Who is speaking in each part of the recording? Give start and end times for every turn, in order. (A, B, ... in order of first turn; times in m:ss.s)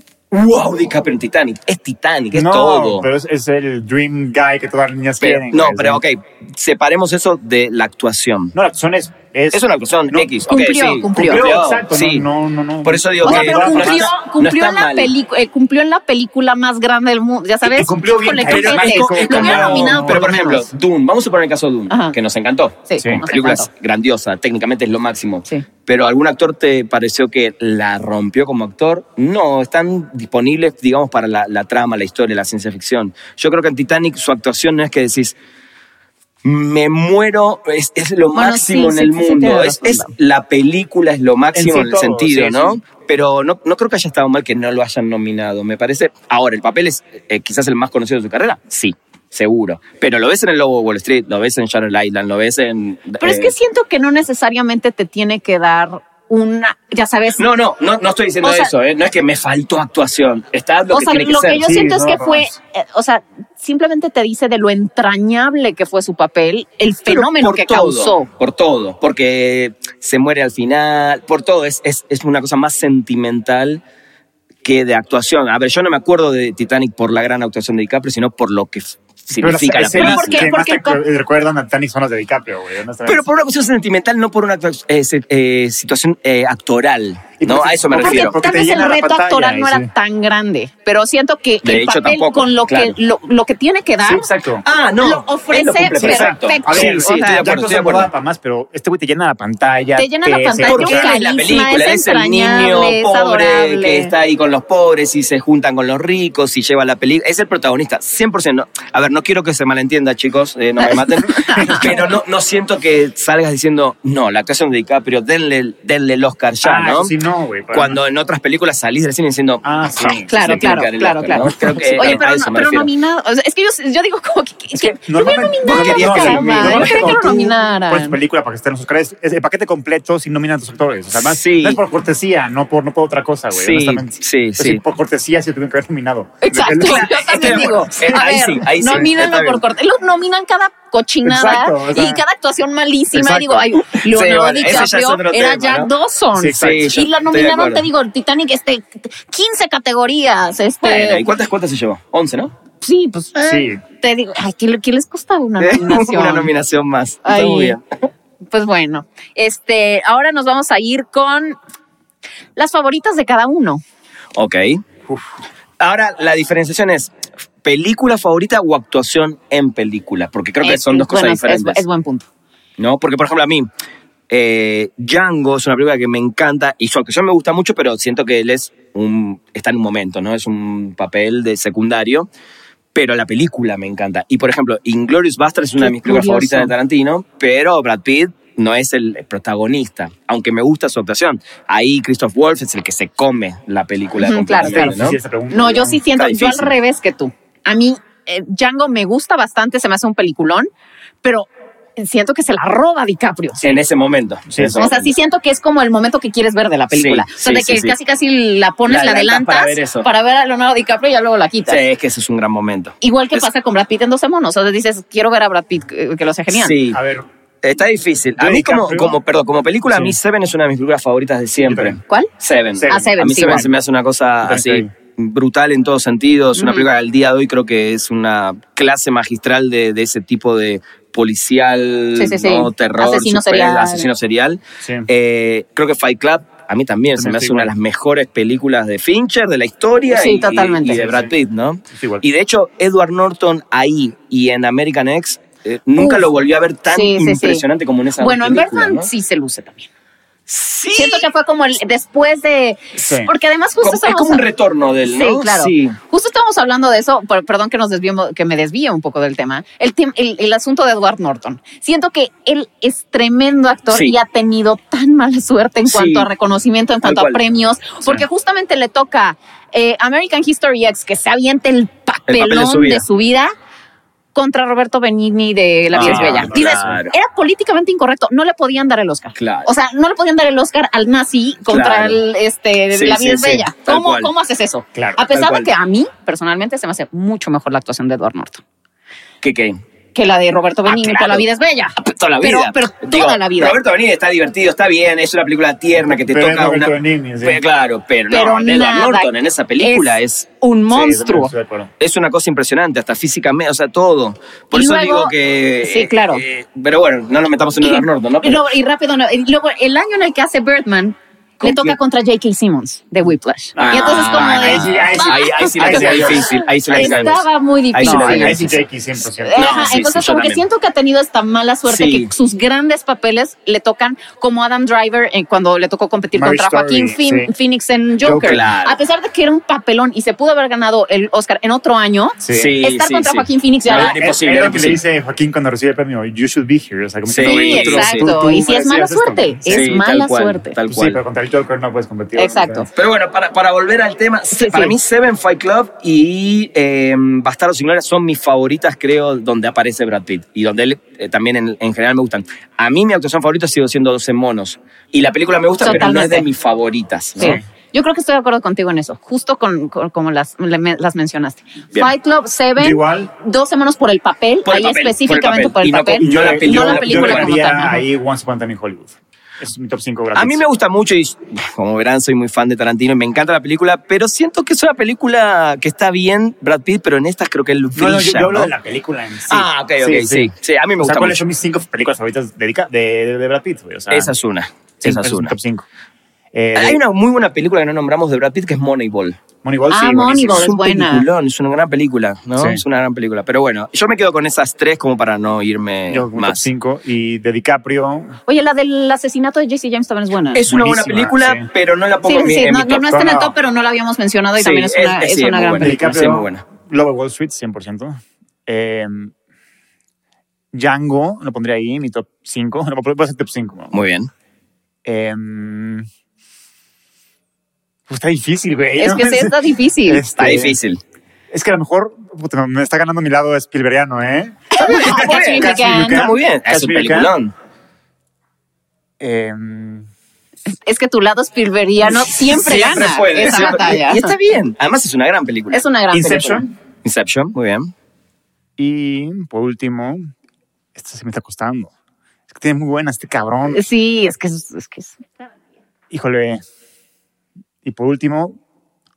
0:00.3-0:03.1 A
0:02.3-0:06.0 B
0:05.2-0:08.5 A
0:08.5-0:10.3 B
0:09.5-0:12.2 A
0:10.5-0:11.5 C
0:11.1-0:14.1 B
0:12.8-0:15.1 A
0:13.2-0:20.7 C
0:17.6-0:20.3 B
0:18.4-0:35.3 A
0:21.9-0:22.1 C
0:22.9-0:23.7 C
0:23.0-0:23.2 B
0:36.4-0:53.5 A
0:38.3-0:40.1 C
0:41.5-0:42.8 B
0:53.2-0:57.4 C
0:57.4-1:01.9 A
0:58.4-0:58.7 C
1:00.9-1:08.3 C
1:01.6-1:02.5 B
1:07.1-1:13.8 A
1:14.6-1:20.5 A
1:19.4-1:23.2 B
1:19.8-1:21.0 C
1:23.0-1:28.3 A
1:27.4-1:29.9 B
1:28.0-1:34.3 C
1:31.6-1:33.0 A
1:34.0-1:34.6 B
1:34.6-1:38.1 A
1:35.0-1:37.6 C
1:36.0-1:41.2 B
1:40.0-1:44.1 C
1:40.6-1:57.1 A
1:50.8-1:51.9 C
1:51.5-1:52.0 B
1:56.6-1:58.0 B
1:57.7-2:02.9 A
1:59.6-2:00.2 B
2:00.3-2:08.2 C
2:01.7-2:02.2 B
2:04.7-2:17.8 B
2:05.6-2:07.2 A
2:11.1-2:11.8 A
2:13.5-2:14.8 A
2:16.4-2:31.2 C
2:16.8-2:19.6 A
2:21.2-2:22.2 B
2:23.1-2:23.6 B
2:24.0-2:25.9 A
2:26.3-2:26.9 B
2:26.6-2:27.8 A
2:30.8-2:32.5 A
2:32.8-2:36.5 C
2:33.4-2:33.8 B
2:35.6-2:37.8 A
2:37.2-2:37.8 C
2:38.5-2:41.6 C
2:42.6-2:43.8 C
2:44.3-2:44.8 A
2:45.8-2:47.1 A
2:47.6-2:51.8 A
2:50.6-2:52.2 C
2:52.8-2:53.7 A
2:54.3-3:02.3 A
3:02.9-3:15.2 A
3:05.8-3:06.7 C
3:14.2-3:15.0 C
3:14.6-3:16.0 B
3:15.5-3:20.7 C
3:16.1-3:16.7 A
3:21.2-3:23.8 C
3:23.6-3:25.1 A
3:24.5-3:24.9 B
3:24.8-3:31.8 C
3:26.9-3:28.0 A
3:28.9-3:30.1 A
3:31.7-3:33.5 A
3:33.0-3:36.8 C
3:36.5-3:37.0 A
3:36.9-3:37.2 B
3:37.6-4:09.1 A
3:38.4-3:39.2 B
3:39.9-3:40.2 B
3:41.6-3:42.0 B
3:42.8-3:43.7 B
3:42.9-3:43.7 C
3:44.4-3:44.9 B
3:46.6-3:46.8 C
3:52.2-3:54.1 C
3:54.8-3:55.1 B
3:57.2-3:57.7 B
4:00.1-4:01.0 C
4:00.9-4:01.3 B
4:01.9-4:02.2 B
4:06.0-4:06.3 C
4:06.9-4:07.6 C
4:08.2-4:09.9 C
4:10.5-4:11.3 A
4:10.9-4:14.4 C
4:13.0-4:13.3 B
4:13.8-4:16.0 A
4:15.1-4:33.5 C
4:23.9-4:24.2 A
4:25.8-4:26.3 A
4:27.0-4:27.4 A
4:32.3-4:33.0 A
4:34.3-4:48.6 C
4:35.9-4:37.1 A
4:35.9-4:37.0 B
4:39.3-4:39.7 A
4:41.7-4:42.2 A
4:42.9-4:44.3 A
4:44.9-4:45.2 B
4:45.3-4:45.7 A
4:49.4-4:49.8 A
4:50.1-4:53.8 C
4:50.8-4:51.4 A
4:52.0-5:00.5 A
4:56.0-4:57.6 B
4:58.3-4:59.3 C
4:59.8-5:01.5 C
5:00.9-5:01.9 B
5:02.0-5:08.6 A
5:04.7-5:06.4 C
5:07.8-5:18.6 C
5:11.6-5:12.0 A
5:13.8-5:17.3 B
5:13.8-5:18.8 A
5:18.0-5:20.0 B
5:19.4-5:34.2 C
5:19.6-5:20.6 A
5:21.8-5:22.3 A
5:26.3-5:27.5 B
5:28.2-5:28.6 B
5:28.2-5:29.0 A
5:32.4-5:32.7 B
5:32.5-5:35.0 A
5:33.9-5:39.9 B
5:37.3-5:38.3 A
5:37.4-5:40.7 C
5:39.7-5:41.2 A
5:40.9-5:42.9 B
5:42.4-5:42.9 C
5:43.0-5:57.6 A
5:44.5-5:44.9 C
5:55.8-5:56.4 C
5:57.4-6:08.0 C
6:02.8-6:03.3 B
6:04.6-6:07.9 A
6:06.2-6:10.6 B
6:10.3-6:18.7 A
6:17.9-6:24.3 B
6:19.5-6:21.4 A
6:24.1-6:25.5 A
6:25.0-6:25.8 B
6:26.5-6:27.0 B
6:26.7-6:29.4 A
6:29.6-6:30.7 B
6:29.9-6:31.2 C
6:30.4-6:36.6 A
6:32.6-6:32.8 B
6:36.1-6:38.4 B
6:38.5-6:40.6 C
6:40.5-6:43.1 A
6:40.6-6:41.7 B
6:42.2-6:46.0 C
6:43.1-6:43.5 B
6:44.6-6:46.6 A
6:45.8-6:49.3 B
6:50.7-6:53.9 B
6:53.9-6:54.3 A
6:55.0-6:56.1 B
6:58.1-7:00.8 B
6:59.0-7:00.2 C
7:00.4-7:01.0 A
7:01.5-7:07.3 B
7:04.7-7:06.3 C
7:04.8-7:07.5 A
7:09.2-7:10.1 B
7:10.7-7:14.3 C
7:12.3-7:15.8 A
7:15.7-7:16.6 C
7:16.1-7:16.7 B
7:17.0-7:17.9 A
7:18.8-7:20.3 B
7:20.9-7:21.9 B
7:22.5-7:23.8 B
7:23.7-7:25.2 C
7:26.1-7:26.6 B
7:27.8-7:28.6 B